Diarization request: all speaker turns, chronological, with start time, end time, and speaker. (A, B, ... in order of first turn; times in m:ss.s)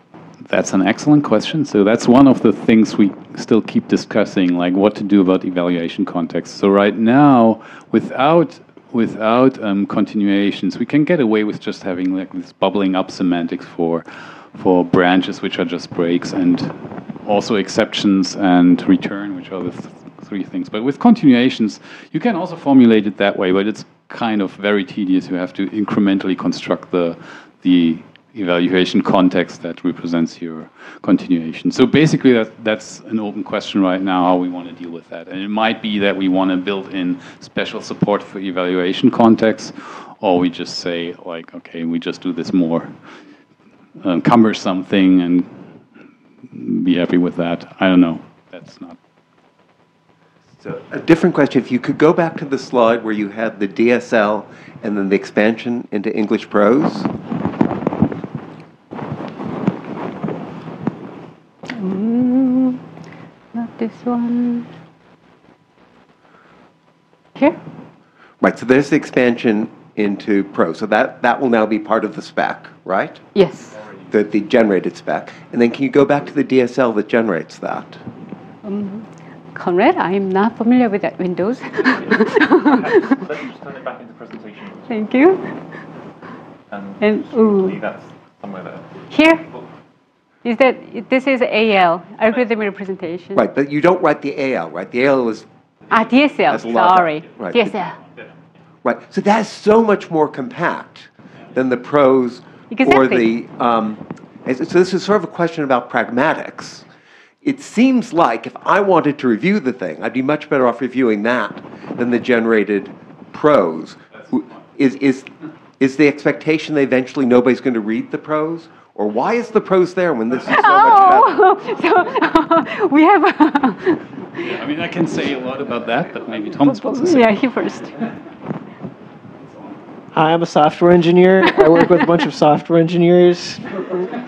0:00.4-0:43.0 A
0:44.0-0:45.7 A
0:46.5-0:49.0 A
0:50.6-0:57.1 B
1:01.7-1:02.8 C
1:03.5-1:04.7 C
1:08.4-1:13.2 B
1:13.4-1:13.7 C
1:14.1-1:18.0 B
1:18.6-1:23.0 C
1:21.8-1:25.0 D
1:24.9-1:25.4 C
1:26.7-1:29.0 D
1:27.0-1:27.8 C
1:29.1-1:29.5 C
1:30.4-1:33.4 C
1:33.4-1:35.5 B
1:35.9-1:38.0 C
1:36.5-1:37.8 B
1:38.8-1:46.8 B
1:42.7-1:43.3 C
1:47.4-2:01.4 B
2:00.5-2:04.5 C
2:04.4-2:07.5 A
2:06.6-2:08.0 C
2:10.1-2:13.7 E